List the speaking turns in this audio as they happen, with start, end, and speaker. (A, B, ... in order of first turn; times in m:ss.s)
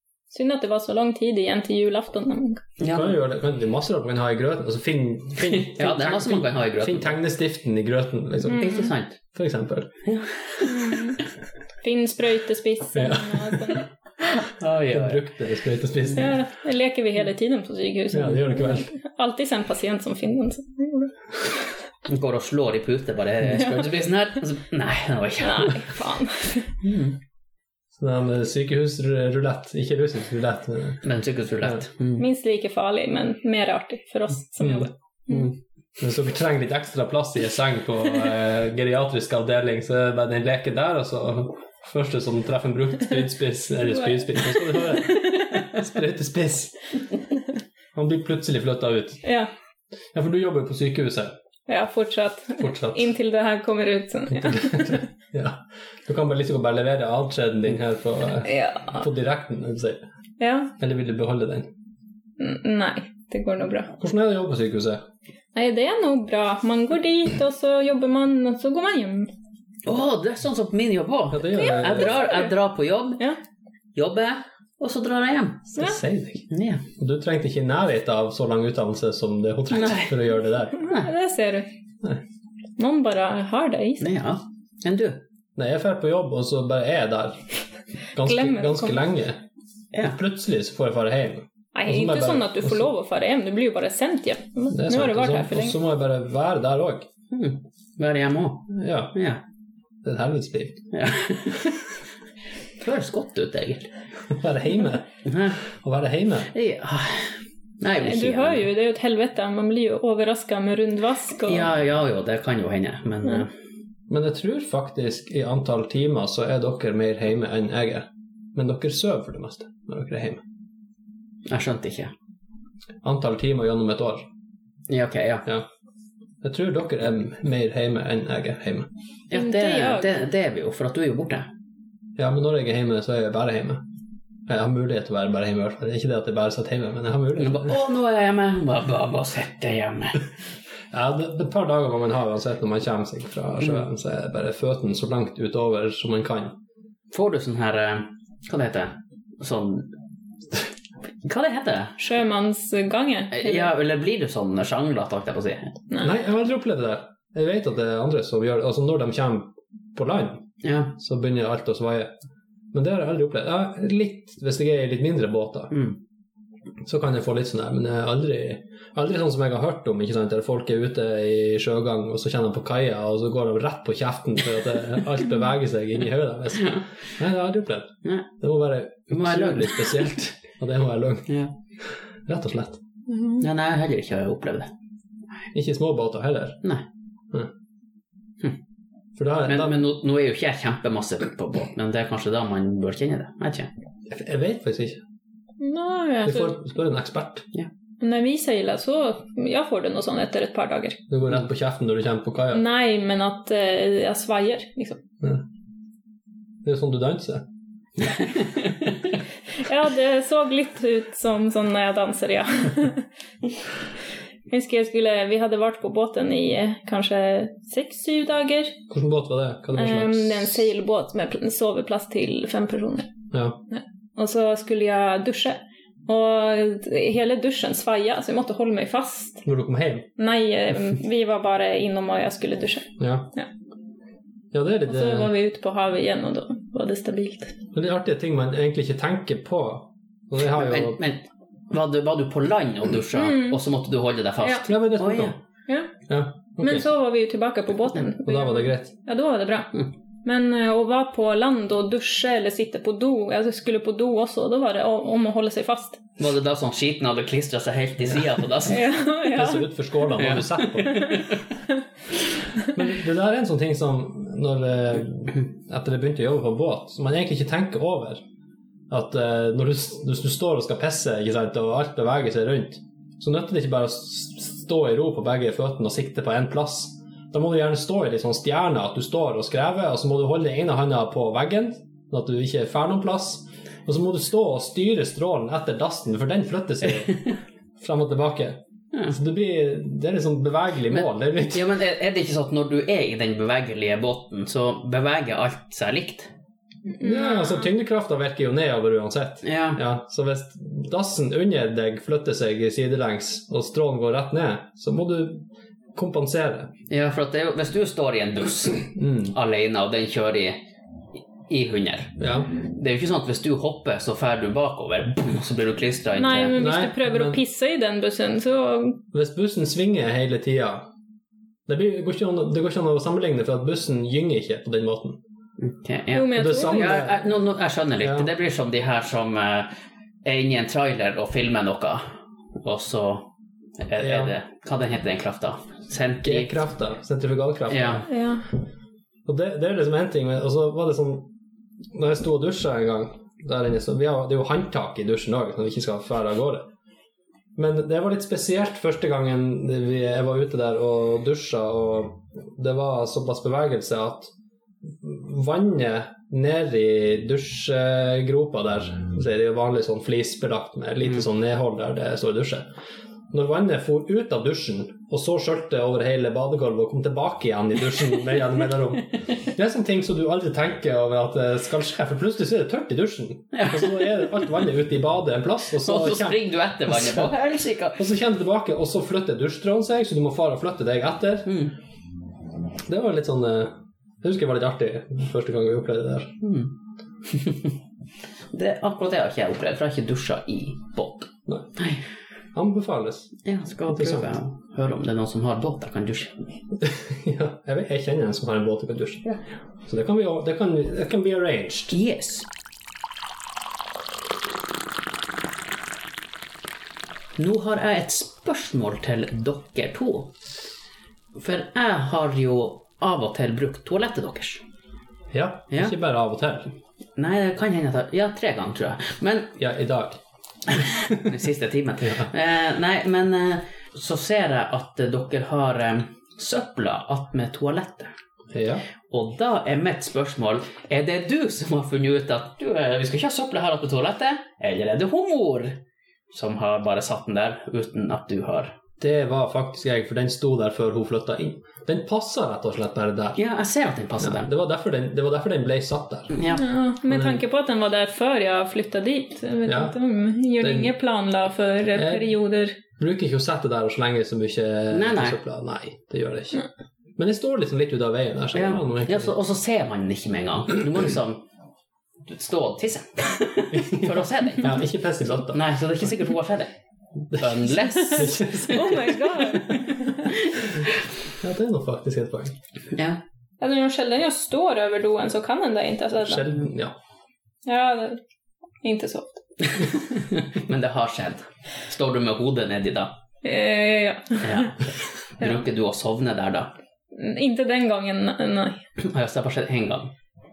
0:00.3-0:02.6 A
0:02.8-0:03.2 B
0:02.9-0:08.7 C
0:05.5-0:07.2 B
0:08.5-0:09.2 B
0:08.5-0:08.9 A
0:09.3-0:09.9 C
0:10.0-0:11.1 B
0:10.7-0:11.2 A
0:11.8-0:13.9 A
0:13.0-0:13.8 C
0:14.3-0:15.2 B
0:14.9-0:16.4 C
0:16.2-0:21.6 A
0:18.1-0:18.9 C
0:22.1-0:25.8 B
0:25.4-0:26.8 A
0:26.8-0:27.2 B
0:28.0-0:31.0 C
0:31.0-0:32.3 B
0:32.2-0:35.5 A
0:34.6-0:34.9 C
0:36.0-0:46.8 C
0:43.9-0:45.8 A
0:47.9-0:49.2 C
0:49.2-0:49.5 A
0:50.1-0:51.4 C
0:51.7-0:55.1 A
0:52.6-0:53.1 C
0:54.4-1:00.0 C
0:58.5-0:59.0 A
1:00.4-1:00.7 A
1:00.8-1:01.7 C
1:02.4-1:03.9 A
1:04.0-1:05.0 C
1:05.6-1:09.3 A
1:09.9-1:13.2 B
1:11.3-1:12.2 C
1:11.5-1:12.5 A
1:14.0-1:15.7 B
1:15.8-1:16.0 A
1:15.8-1:16.5 C
1:16.5-1:16.8 B
1:17.0-1:20.8 C
1:19.7-1:20.1 B
1:20.8-1:21.7 A
1:20.8-1:21.1 B
1:22.8-1:24.1 A
1:24.0-1:25.2 B
1:25.6-1:27.4 C
1:28.2-1:29.4 C
1:28.2-1:29.0 A
1:30.0-1:32.9 C
1:31.7-1:35.8 A
1:34.7-1:37.1 C
1:37.3-1:39.4 B
1:38.7-1:39.2 C
1:40.0-1:40.8 C
1:40.9-1:41.8 B
1:42.8-1:43.9 B
1:44.3-1:45.1 C
1:45.2-1:45.6 B
1:45.6-1:46.5 C
1:46.5-1:48.7 B
1:48.0-1:51.7 A
1:51.4-1:53.5 B
1:54.1-2:00.4 C
2:01.5-2:02.1 B
2:03.0-2:04.3 C
2:04.9-2:05.5 B
2:06.4-2:08.9 C
2:09.3-2:11.5 B
2:09.3-2:10.2 A
2:12.2-2:13.8 C
2:14.5-2:17.8 C
2:17.4-2:20.2 B
2:20.9-2:26.6 C
2:27.1-2:29.9 B
2:31.2-2:32.0 B
2:32.0-2:33.7 A
2:33.3-2:35.8 B
2:36.0-2:40.4 C
2:40.6-2:40.9 B
2:41.0-2:42.1 C
2:42.7-2:45.7 C
2:45.7-2:46.0 B
2:46.8-3:02.8 C
2:56.5-2:56.9 B
2:58.0-2:58.3 B
2:59.1-3:00.1 B
3:01.3-3:01.5 B
3:03.1-3:03.5 A
3:03.4-3:04.7 B
3:05.5-3:06.6 C
3:09.2-3:09.8 C
3:09.4-3:13.7 B
3:14.1-3:15.0 C
3:15.6-3:16.5 A
3:16.2-3:17.5 C
3:18.0-3:21.0 A
3:21.1-3:22.6 C
3:22.5-3:25.0 A
3:26.6-3:27.4 C
3:28.0-3:29.2 B
3:29.6-3:33.1 A
3:34.5-3:38.8 A
3:38.9-3:40.6 C
3:39.8-3:43.1 A
3:43.3-3:43.6 C
3:43.7-3:49.4 A
3:49.4-3:50.1 C
3:50.2-3:53.5 A
3:53.0-3:53.3 C
3:54.5-3:55.3 C
3:54.9-3:57.6 A
3:57.7-4:01.0 C
4:00.6-4:05.4 B
4:03.2-4:03.6 A
4:04.4-4:04.7 A
4:04.7-4:05.4 C
4:06.1-4:06.9 C
4:06.5-4:16.0 A
4:08.2-4:08.9 C
4:16.2-4:18.9 B
4:18.1-4:18.4 C
4:18.7-4:20.0 A
4:19.3-4:21.2 C
4:20.1-4:21.4 B
4:20.9-4:21.2 A
4:22.7-4:28.2 C
4:28.9-4:51.7 C
4:50.9-4:56.3 B
4:57.0-4:57.6 A
4:57.0-5:06.7 C
4:59.4-4:59.8 B
5:06.9-5:10.6 B
5:09.0-5:09.4 C
5:11.5-5:16.6 B
5:12.2-5:12.5 C
5:16.2-5:19.0 A
5:16.6-5:17.4 C
5:19.1-5:20.9 C
5:21.7-5:25.2 C
5:25.6-5:29.7 B
5:26.1-5:27.0 A
5:26.3-5:27.3 C
5:28.0-5:28.3 C
5:30.2-5:32.1 B
5:32.6-5:36.6 B
5:34.0-5:34.4 C
5:36.2-5:38.1 C
5:37.7-5:38.1 B
5:38.1-5:38.4 A
5:39.2-5:41.3 C
5:41.9-5:46.7 C
5:47.6-5:54.3 C
5:54.8-6:02.7 C
6:03.3-6:17.4 C
6:13.5-6:14.1 B
6:15.8-6:18.0 B
6:18.0-6:21.5 C
6:21.5-6:21.7 B
6:22.9-6:26.4 C
6:26.4-6:26.7 B
6:27.2-6:27.7 B
6:28.5-6:32.0 B
6:31.5-6:31.7 C
6:32.5-6:33.4 C
6:33.4-6:36.4 B
6:33.9-6:34.3 C
6:36.8-6:42.0 C
6:41.9-6:42.5 B
6:47.4-6:50.3 B
6:51.4-6:54.6 B
6:55.3-6:56.8 C
6:57.2-6:59.5 B
6:59.6-7:00.2 C
7:01.2-7:08.2 B
7:08.5-7:08.8 C
7:09.1-7:15.8 B
7:16.3-7:18.8 B
7:19.0-7:23.4 C
7:23.4-7:24.5 B
7:24.2-7:26.4 C
7:26.3-7:26.6 B
7:26.5-7:32.8 A
7:27.1-7:27.4 C
7:29.7-7:30.0 C
7:30.6-7:30.9 C
7:31.9-7:32.4 C
7:33.0-7:36.6 C
7:34.9-7:35.4 B
7:37.2-7:39.3 C
7:38.5-7:41.4 B
7:42.3-7:44.8 B
7:43.7-7:45.6 C
7:45.5-7:50.8 B
7:47.3-7:49.6 C
7:48.6-7:50.3 A
7:51.4-7:52.6 C
7:52.9-7:53.2 B
7:53.6-7:56.5 A
7:56.2-7:57.0 C
7:57.6-7:58.2 A
7:58.8-7:59.4 A
7:59.6-8:03.1 B
8:03.4-8:04.8 A
8:04.4-8:06.7 B
8:07.1-8:08.8 A
8:09.0-8:10.1 B